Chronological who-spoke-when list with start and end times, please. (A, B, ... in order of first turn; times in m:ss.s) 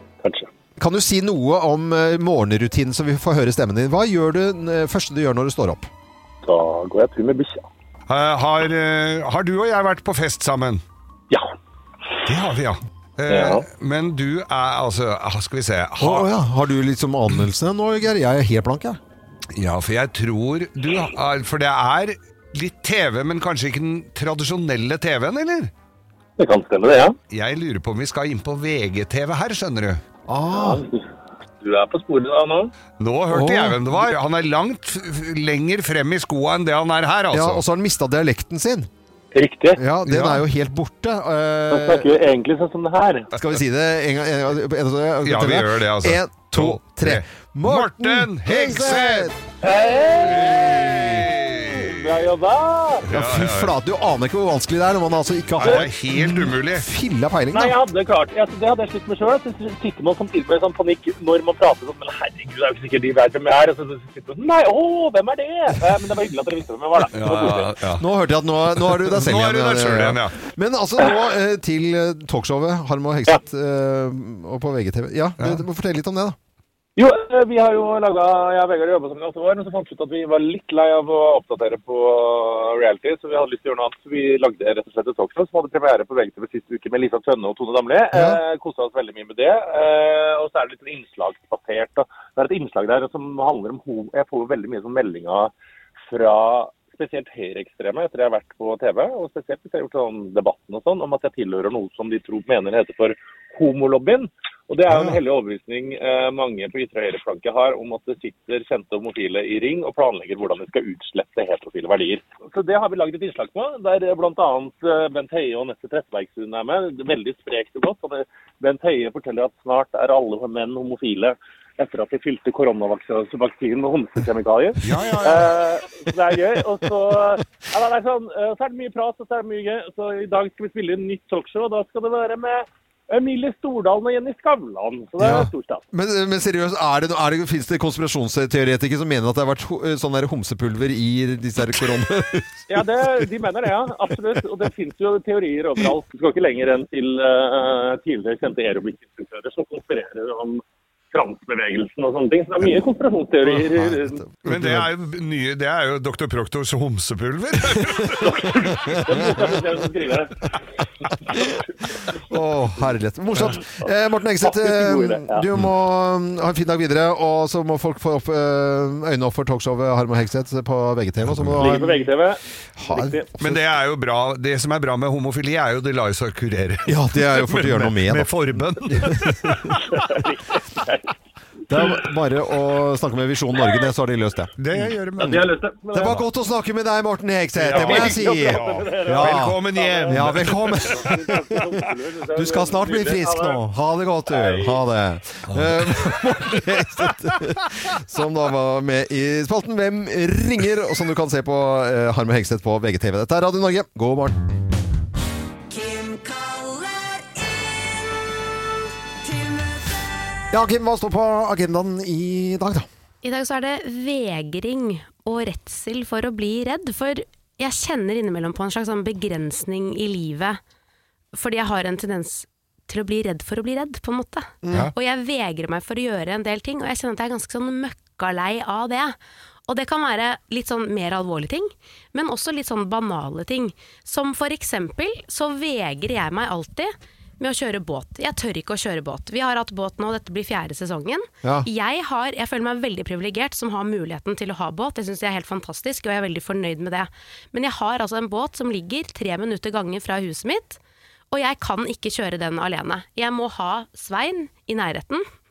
0:00.2-0:00.5 A
0:00.8-0:05.9 B
0:06.4-0:07.6 A
0:08.1-0:10.8 C
0:12.2-0:16.3 C
0:13.3-0:13.6 A
0:16.0-0:19.0 B
0:19.5-0:25.7 C
0:26.4-0:27.2 A
0:27.3-0:30.0 C
0:30.3-0:30.8 B
0:30.5-0:32.7 A
0:33.0-0:37.6 C
0:33.3-0:33.9 B
0:37.3-0:38.9 B
0:39.3-0:39.8 A
0:39.8-0:42.1 B
0:40.0-0:40.4 C
0:41.7-0:43.3 A
0:43.3-0:49.4 B
0:45.2-0:49.3 C
0:49.6-0:53.1 A
0:50.2-0:52.3 C
0:53.0-0:53.7 C
0:53.1-0:57.8 B
0:55.6-0:56.9 C
0:57.5-1:07.8 A
1:07.1-1:08.0 C
1:08.0-1:16.4 B
1:08.8-1:10.4 C
1:15.4-1:15.6 C
1:17.0-1:35.5 A
1:28.1-1:28.4 B
1:36.0-2:15.8 A
2:04.8-2:05.6 C
2:15.2-2:23.2 B
2:22.7-2:34.2 A
2:33.7-2:34.9 B
2:34.4-2:39.0 C
2:37.9-2:39.2 B
2:38.4-2:41.6 A
2:42.3-2:52.0 B
2:44.4-2:45.5 A
2:51.2-2:51.7 C
2:51.5-2:53.3 A
2:52.8-2:53.6 B
2:53.4-3:00.2 C
2:56.8-2:58.3 B
2:58.9-2:59.8 B
2:59.8-3:01.1 A
3:01.7-3:04.9 B
3:04.6-3:05.5 C
3:05.2-3:06.2 A
3:05.9-3:11.6 B
3:07.6-3:11.2 C
3:07.7-3:13.6 A
3:12.4-3:24.4 B
3:14.3-3:14.8 A
3:15.5-3:17.5 C
3:25.7-3:27.9 D
3:29.2-3:30.1 D
3:30.5-3:32.9 B
3:33.2-3:40.6 E
3:41.3-4:10.8 E
3:44.6-3:44.9 B
4:11.3-4:15.2 E